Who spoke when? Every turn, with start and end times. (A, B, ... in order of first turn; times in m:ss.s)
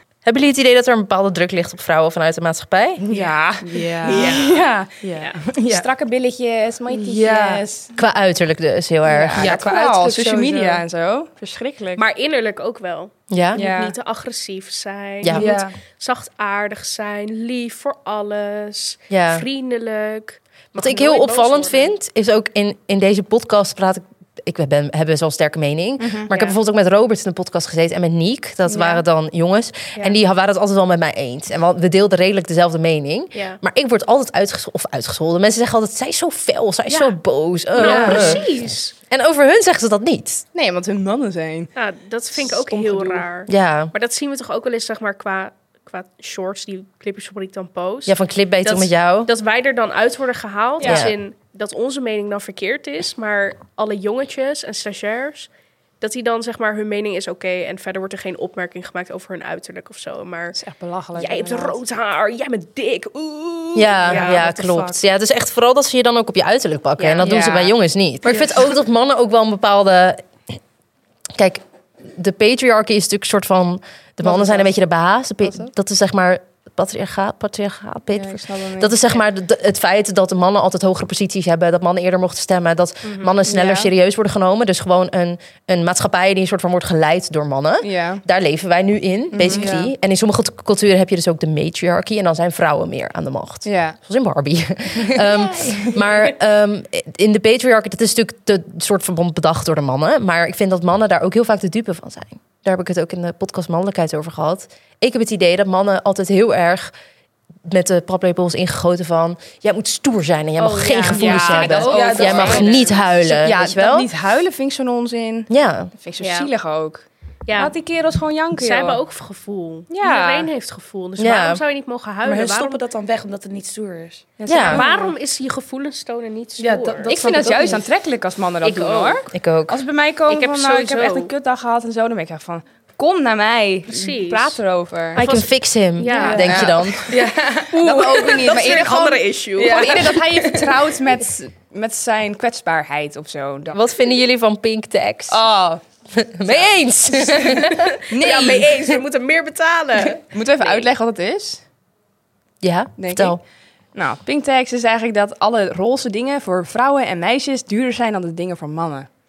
0:00.2-0:03.0 A
0:03.0-0:07.9 B
0:03.6-0:04.5 C
0:04.0-0:04.6 D
0:05.0-0:05.8 C
0:06.9-0:07.6 C
0:08.0-0:09.4 A
0:09.0-0:12.0 B
0:09.4-0:10.8 C
0:12.0-0:21.9 D
0:13.3-0:13.7 A
0:13.5-0:13.9 B
0:15.2-0:15.5 A
0:15.3-0:15.8 C
0:19.1-0:19.4 A
0:20.7-0:38.4 A
0:26.0-0:26.3 B
0:26.3-0:26.6 D
0:33.3-0:33.6 D
0:36.9-0:37.2 D
0:37.7-0:38.9 D
0:37.8-0:38.4 C
0:37.8-0:38.4 B
0:39.1-0:40.4 A
0:40.5-0:41.7 B
0:41.8-0:55.5 D
0:42.3-0:43.2 B
0:43.5-0:43.9 A
0:48.0-0:49.3 A
0:50.8-0:51.1 B
0:50.8-0:51.2 A
0:56.0-1:00.6 D
1:00.5-1:01.8 B
1:01.1-1:04.5 D
1:03.7-1:10.6 A
1:04.1-1:05.0 C
1:07.0-1:07.3 D
1:07.2-1:07.7 B
1:08.2-1:08.6 C
1:11.4-1:46.9 A
1:14.2-1:14.7 B
1:15.4-1:15.7 B
1:18.1-1:19.2 B
1:23.0-1:23.3 D
1:23.4-1:23.9 B
1:27.8-1:28.2 B
1:29.3-1:29.7 B
1:29.5-1:29.9 C
1:33.6-1:34.0 B
1:47.7-1:54.1 A
1:50.6-1:52.9 D
1:51.1-1:59.0 B
1:51.8-1:52.8 C
1:55.5-1:55.9 A
1:56.2-1:56.5 D
1:57.5-1:57.7 D
1:58.6-2:02.8 D
1:59.9-2:00.5 B
2:01.2-2:01.6 A
2:02.2-2:04.3 C
2:04.4-2:05.1 B
2:04.4-2:04.8 A
2:04.6-2:07.1 D
2:06.6-2:07.8 C
2:07.1-2:15.2 B
2:08.6-2:09.3 D
2:09.3-2:09.8 A
2:10.3-2:11.3 D
2:13.9-2:14.6 D
2:15.1-2:16.8 D
2:15.2-2:17.0 A
2:16.1-2:17.2 B
2:16.1-2:17.8 C
2:17.7-2:20.2 D
2:17.8-2:23.8 B
2:20.3-2:20.7 C
2:23.7-2:25.4 A
2:25.3-2:25.8 B
2:26.1-2:27.9 A
2:26.4-2:26.7 B
2:27.4-2:30.9 D
2:28.1-2:28.9 B
2:30.3-2:31.6 B
2:32.6-2:33.4 A
2:33.0-2:33.4 B
2:33.9-2:39.1 B